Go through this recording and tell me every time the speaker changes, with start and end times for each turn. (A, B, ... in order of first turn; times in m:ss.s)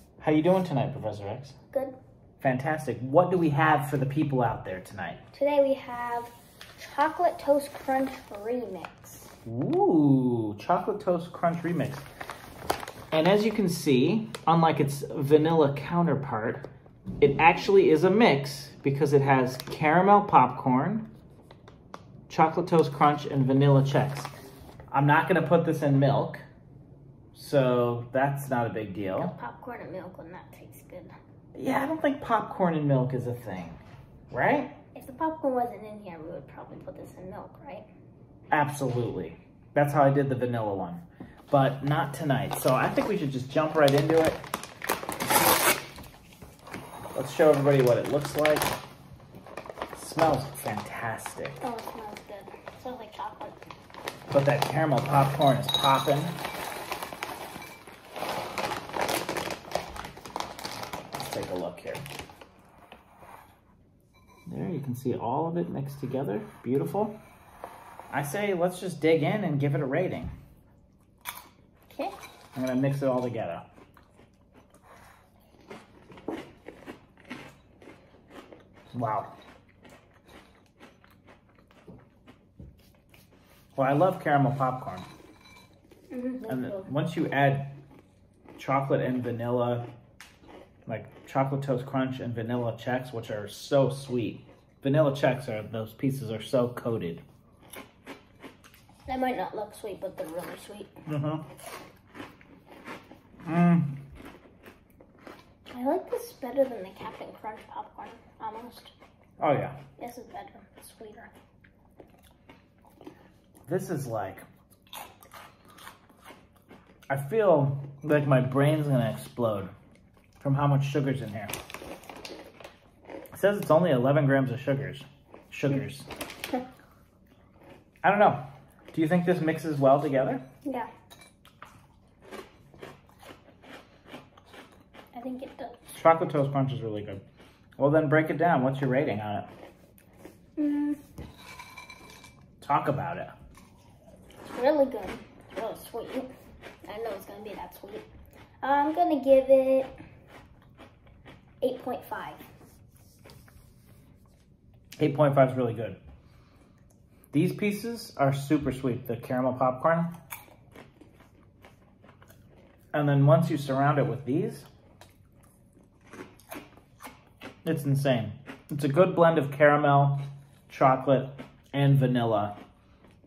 0:00.2-0:01.6 A
0:02.4-0:05.2 A
0:05.3-0:09.3 B
0:09.4-0:12.0 A
0:13.1-0:16.6 A
0:17.2-0:21.1 A
0:22.3-0:24.3 A
0:24.9-0:26.4 A
0:27.3-0:29.3 A
0:29.1-0:31.1 B
0:31.5-0:33.8 A
0:34.3-0:34.8 A
0:34.9-0:37.8 B
0:38.5-0:44.4 A
0:47.1-0:48.7 A
0:49.9-0:51.6 A
0:51.6-0:53.6 B
0:54.3-0:56.3 A
1:01.1-1:02.0 A
1:04.5-1:07.2 A
1:08.1-1:10.3 A
1:12.5-1:13.6 A
1:18.9-1:19.3 A
1:23.7-1:25.1 A
1:26.1-1:26.9 B
1:26.5-1:27.7 A
1:28.6-1:29.8 A
1:30.8-1:37.2 A
1:39.0-1:40.9 B
1:41.0-1:41.4 A
1:43.4-1:44.0 A
1:45.7-1:48.9 B
1:49.4-1:49.8 A
1:50.0-1:51.3 B
1:53.6-1:54.4 A
1:57.1-1:59.7 A
2:00.4-2:01.5 A
2:03.3-2:06.1 A
2:08.0-2:10.4 A
2:10.6-2:10.9 B
2:15.1-2:15.8 B
2:15.9-2:17.2 A
2:17.8-2:19.5 A
2:20.6-2:21.0 B
2:22.6-2:23.3 A
2:24.4-2:26.3 B
2:26.8-2:28.0 B
2:28.6-2:29.9 B
2:31.6-2:32.4 B
2:35.0-2:36.0 A
2:37.3-2:40.1 A
2:42.9-2:44.7 A
2:47.6-2:52.5 A